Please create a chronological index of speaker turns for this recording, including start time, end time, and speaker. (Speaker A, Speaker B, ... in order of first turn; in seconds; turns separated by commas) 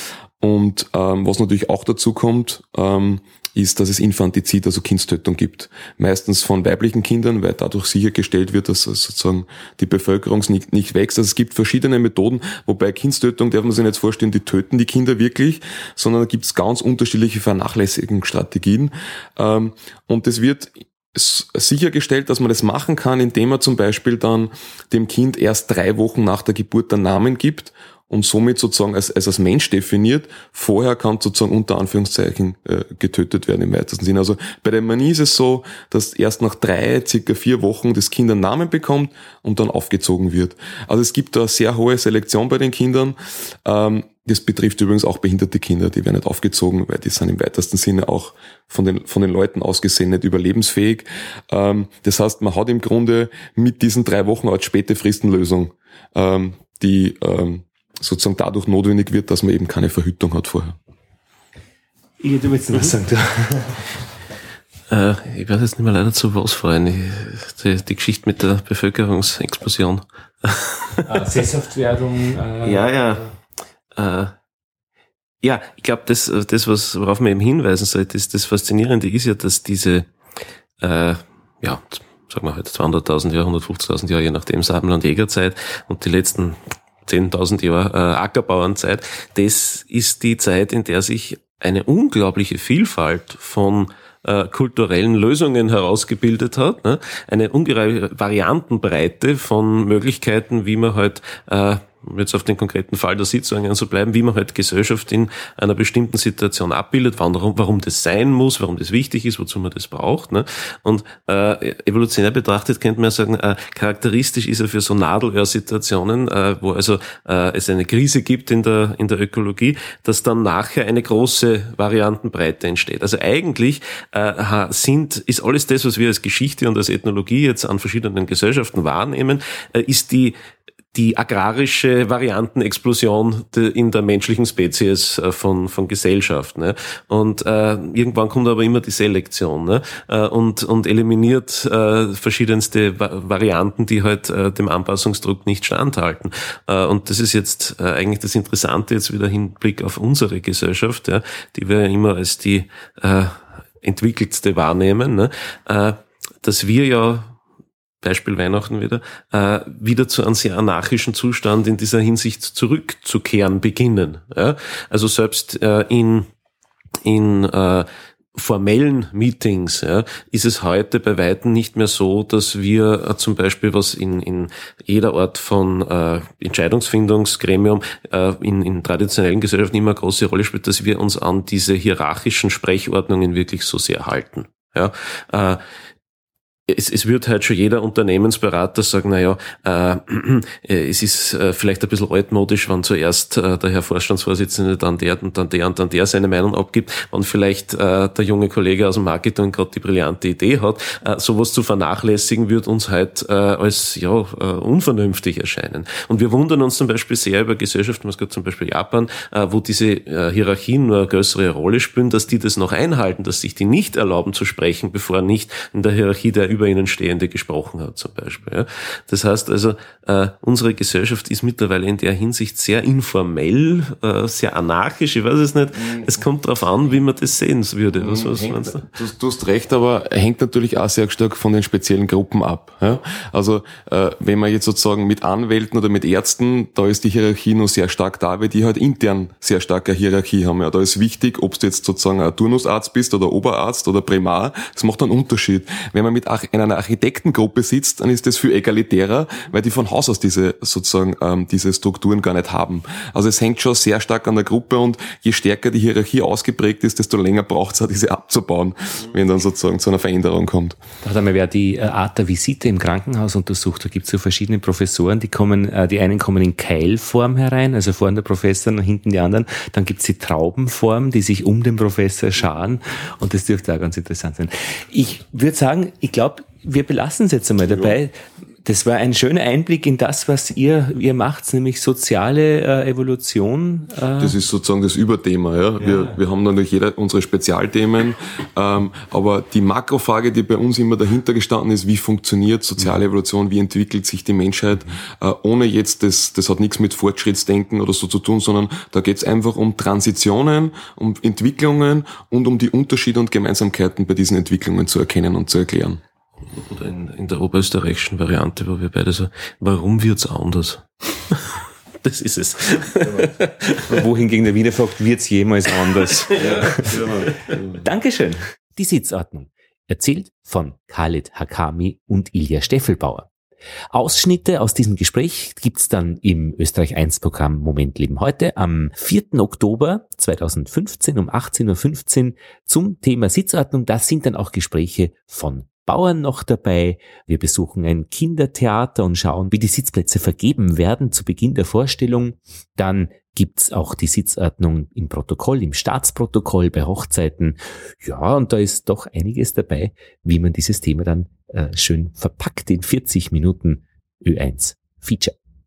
Speaker A: 0.4-60.8, Speaker B: 62.2-63.9, Speaker C: 64.9-71.1, Speaker B: 71.1-72.8, Speaker C: 72.6-73.4, Speaker C: 74.0-74.3, Speaker C: 75.4-80.1, Speaker C: 80.8-130.4, Speaker C: 130.9-157.4, Speaker C: 158.0-166.3, Speaker C: 167.0-185.6, Speaker C: 186.7-228.9, Speaker A: 228.0-260.8, Speaker B: 261.0-284.4, Speaker A: 284.2-306.0, Speaker B: 285.8-286.1, Speaker C: 306.5-314.0, Speaker B: 313.9-317.0, Speaker C: 316.0-317.5, Speaker A: 316.9-317.3, Speaker B: 317.8-323.3, Speaker B: 323.9-355.4